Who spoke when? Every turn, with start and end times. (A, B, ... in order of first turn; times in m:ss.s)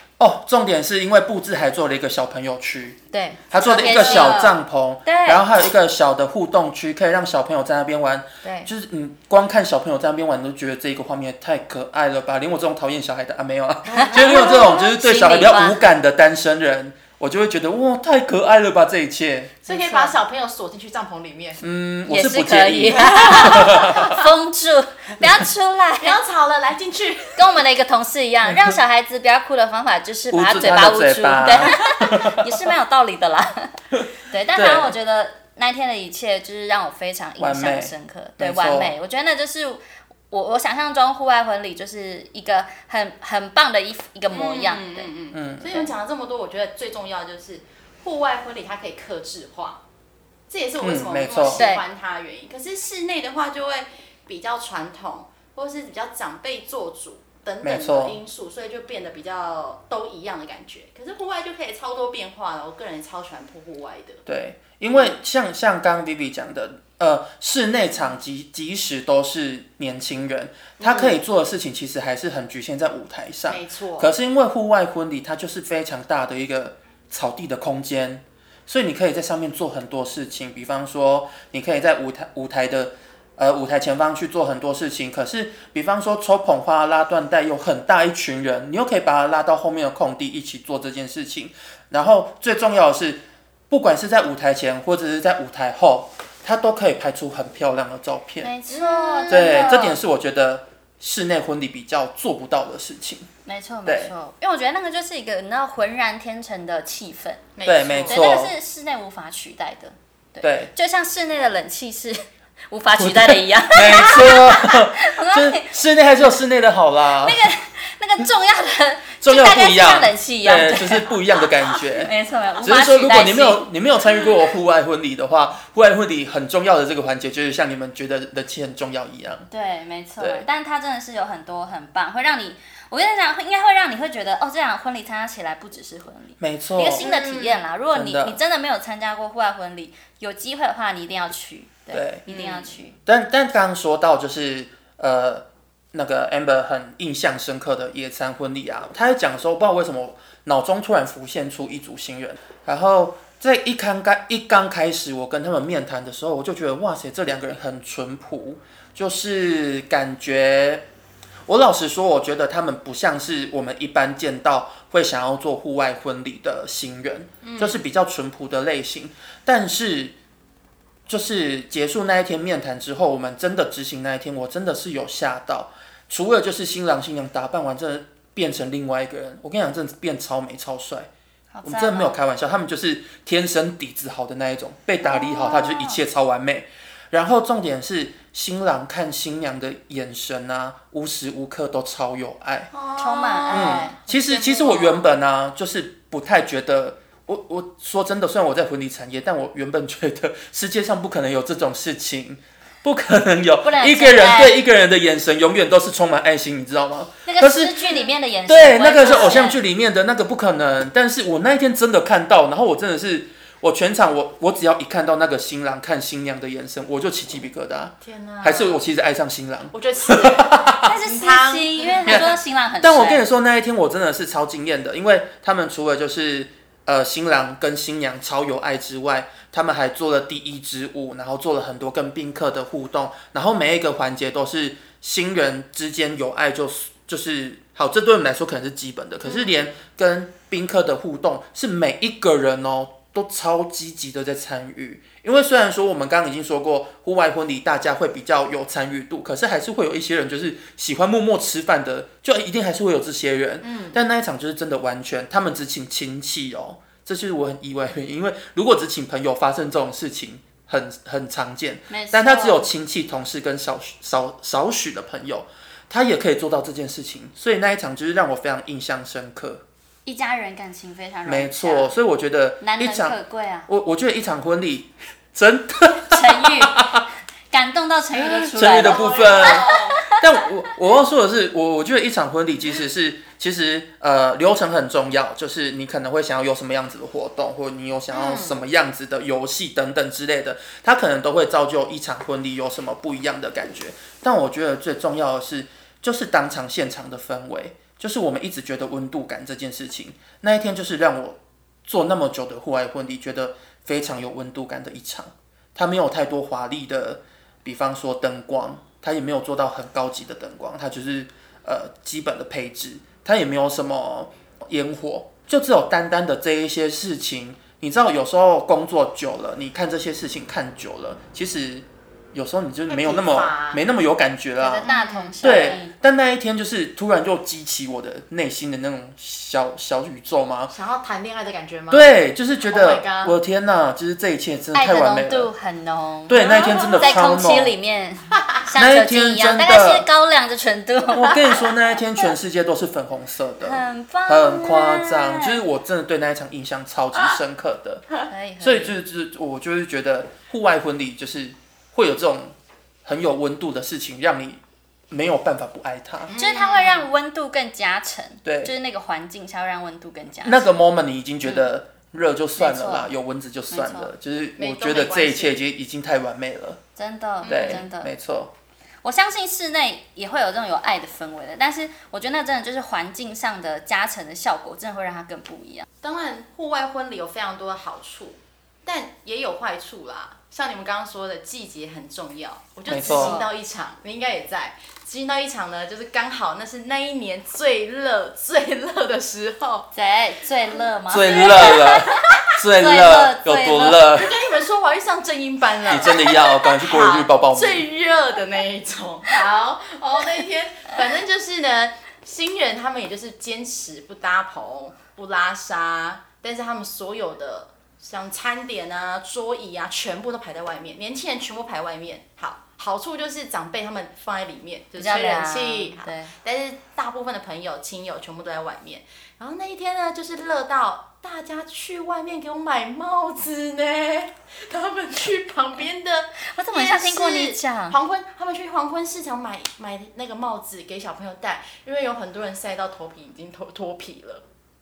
0:00.2-0:03.0 A
0:03.1-0:05.4 B
0:03.5-0:19.5 A
0:03.6-0:04.4 C
0:08.4-0:08.7 B
0:13.9-0:14.8 C
0:13.9-0:15.8 B
0:19.6-0:21.6 C
0:19.7-0:20.1 B
0:21.6-0:24.2 A
0:22.1-0:26.2 B
0:23.3-0:24.0 C
0:26.0-0:27.4 C
0:27.4-0:45.1 B
0:28.4-0:28.8 A
0:30.3-0:32.5 A
0:34.5-0:34.9 A
0:37.4-0:38.9 A
0:44.3-0:49.8 C
0:45.3-0:45.9 A
0:50.5-1:04.2 C
0:50.8-0:51.6 A
0:51.5-0:51.8 B
0:57.6-0:58.2 A
1:04.2-1:38.5 A
1:10.8-1:11.2 C
1:13.5-1:14.1 C
1:38.4-1:40.0 B
1:38.7-1:39.6 C
1:39.3-1:43.3 A
1:43.4-1:47.5 B
1:43.8-1:44.1 A
1:47.6-1:48.2 C
1:47.6-1:48.5 A
1:48.0-1:55.7 B
1:50.4-1:50.7 A
1:53.0-1:57.5 A
1:57.2-2:01.2 B
1:59.2-2:09.5 A
2:01.9-2:03.6 B
2:09.5-2:23.0 B
2:10.2-2:10.4 A
2:16.4-2:17.1 A
2:16.9-2:17.6 C
2:17.9-2:18.4 A
2:21.9-2:22.2 A
2:22.3-2:22.7 C
2:23.0-2:40.8 A
2:41.4-2:50.1 A
2:47.4-2:47.8 C
2:51.1-3:01.1 A
3:01.5-3:02.2 B
3:01.6-3:12.7 A
3:05.0-3:06.0 B
3:12.7-3:15.1 C
3:13.0-3:14.0 B
3:13.5-3:27.9 A
3:23.6-3:24.6 B
3:27.2-3:29.6 B
3:28.5-3:40.9 A
3:38.0-3:38.8 C
3:39.7-3:42.3 C
3:40.8-3:43.2 B
3:42.8-4:29.6 A
3:59.2-3:59.6 C
4:13.6-4:14.0 C
4:21.9-4:22.7 B
4:30.0-4:31.9 B
4:31.2-4:37.0 A
4:32.6-4:33.7 B
4:36.1-4:36.9 B
4:37.5-4:40.2 B
4:38.2-5:24.9 A
4:38.2-4:40.0 C
4:48.1-4:48.6 C
5:22.9-5:23.8 C
5:24.6-5:25.9 B
5:24.8-5:25.8 C
5:25.4-5:30.7 A
5:30.7-5:32.1 C
5:31.9-5:35.5 A
5:32.6-5:33.3 C
5:34.7-5:36.4 B
5:36.3-5:37.7 A
5:36.3-5:37.2 C
5:37.0-5:41.7 B
5:38.7-5:40.1 A
5:41.1-5:56.3 A
5:43.6-5:45.6 B
5:48.3-5:48.9 B
5:56.3-5:57.1 C
5:56.4-6:00.7 B
5:58.4-5:58.7 A
6:00.4-6:06.8 A
6:02.6-6:03.1 B
6:03.7-6:04.1 B
6:04.6-6:05.6 C
6:07.0-6:08.1 B
6:07.4-6:07.8 C
6:07.4-6:08.5 A
6:09.0-6:15.8 B
6:16.0-6:29.9 C
6:22.9-6:23.4 A
6:23.0-6:23.5 B
6:29.9-6:32.0 B
6:31.1-6:34.3 A
6:31.3-6:32.4 C
6:32.7-6:34.0 B
6:34.1-7:14.4 C
6:35.8-6:37.8 A
6:55.0-6:56.3 B
7:06.5-7:08.0 B